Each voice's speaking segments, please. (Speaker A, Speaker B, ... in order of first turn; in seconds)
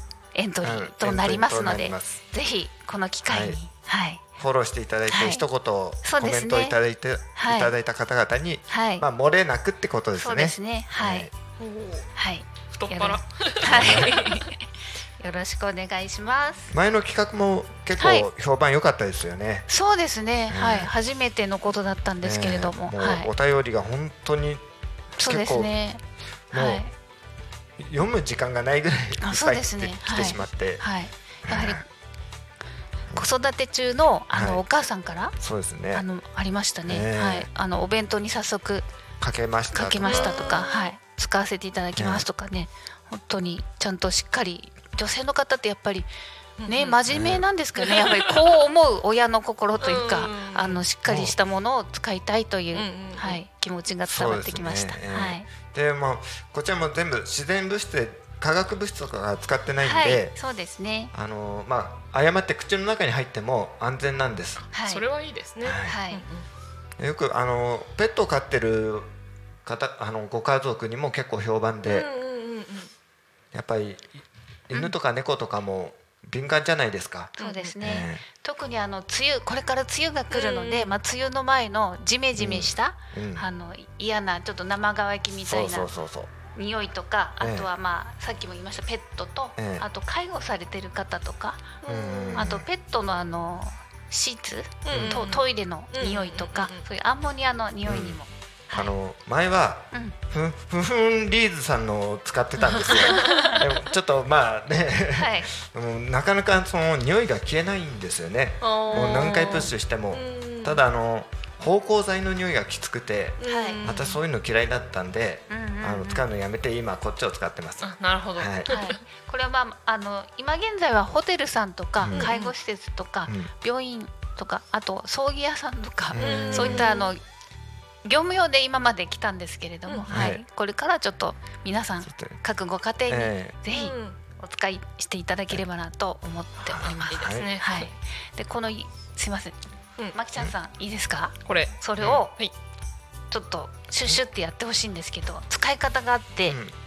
Speaker A: 0.3-4.2, 5.1-5.5, 6.0-6.8, 7.3-7.7, 8.7-9.1, 10.2-11.3, 12.2-14.6, 15.2-16.7, 18.0-18.3, 19.7-23.3, 25.2-26.9, 29.2-31.9, 33.1-35.4, 35.9-38.9, 39.7-46.1, 46.7-55.5, 59.8-61.1, 64.7-65.0, 65.8-66.2, 77.4-85.9, 86.5-91.8, 92.3-98.9, 102.6-103.6, 105.2-105.5, 113.5-113.8, 115.5-116.3, 118.7-127.2, 128.0-139.6, 140.1-142.3, 143.3-146.6
Speaker B: 0.6-2.2, 3.3-3.6, 4.4-11.3, 13.6-14.3, 16.7-19.7, 20.5-20.9, 22.2-24.6, 25.2-25.7, 26.5-26.8, 27.8-30.8, 31.5-31.8, 34.3-34.6, 35.4-36.0, 36.9-37.5, 39.2-40.4, 42.0-42.3, 47.1-47.5, 51.1-51.4, 54.1-60.4, 61.1-64.7, 65.6-66.0, 67.0-69.1, 69.7-72.1, 73.5-78.2, 82.4-83.5, 85.5-86.3, 87.4-87.7, 89.6-89.8, 91.8-92.7, 94.9-95.2, 97.9-98.2, 98.7-118.7, 122.0-122.3, 126.1-126.9, 130.1-130.4, 132.1-132.4, 133.1-133.6, 136.7-137.5, 142.0-142.3, 146.5-146.7
Speaker C: 11.6-12.1, 12.7-14.5, 40.0-40.9, 46.6-47.0, 47.8-48.5, 49.8-50.8, 52.7-53.4, 64.7-66.5, 71.9-72.9, 77.4-77.8, 80.3-81.0, 91.8-92.5, 94.8-96.8, 102.9-103.6, 108.6-110.8, 113.4-114.2, 117.8-119.0, 122.1-122.5, 126.2-127.1, 129.9-130.2, 133.7-134.2, 136.9-137.9, 141.5-141.7